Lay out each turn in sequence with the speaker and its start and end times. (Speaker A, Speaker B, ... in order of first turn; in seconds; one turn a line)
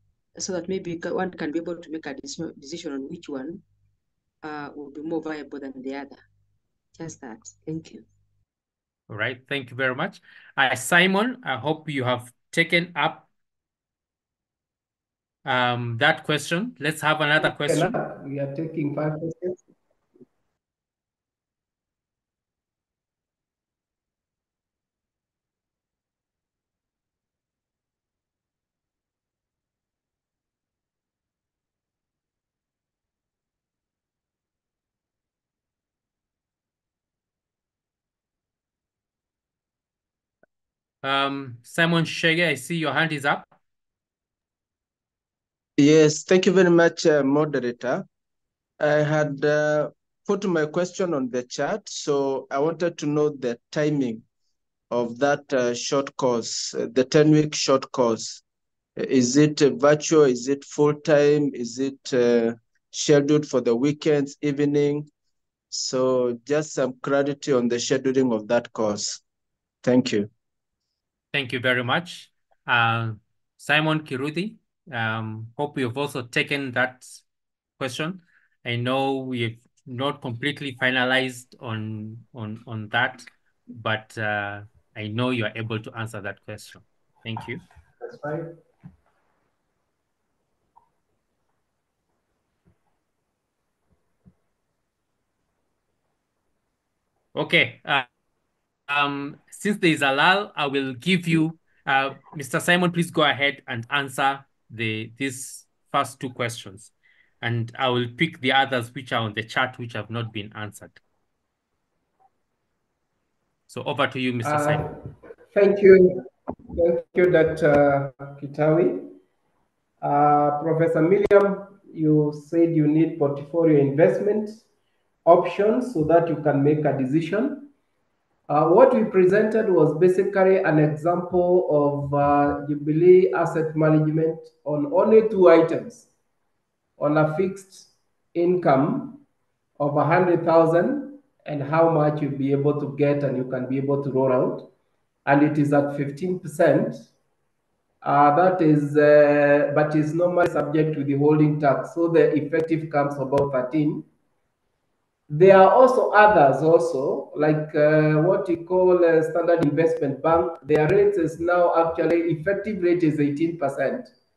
Speaker A: 0.3-3.6
Speaker A: 4.4-6.2
Speaker A: 7.0-8.0
Speaker B: 9.1-13.3
Speaker B: 15.4-17.9
Speaker C: 17.4-19.6
Speaker B: 41.0-43.5
Speaker D: 45.8-48.0
Speaker D: 48.8-54.2
Speaker D: 54.9-58.4
Speaker D: 59.0-65.1
Speaker D: 65.7-69.2
Speaker D: 69.8-70.3
Speaker B: 71.3-77.2
Speaker B: 77.8-87.6
Speaker C: 88.0-88.5
Speaker B: 97.3-98.0
Speaker B: 98.9-111.0
Speaker B: 113.7-114.9
Speaker C: 114.4-115.0
Speaker C: 115.5-119.2
Speaker C: 120.0-124.6
Speaker C: 125.2-127.7
Speaker C: 128.5-136.1
Speaker C: 137.0-139.2
Speaker C: 139.8-144.7
Speaker C: 145.2-147.1
Speaker C: 148.0-154.1
Speaker C: 155.3-164.1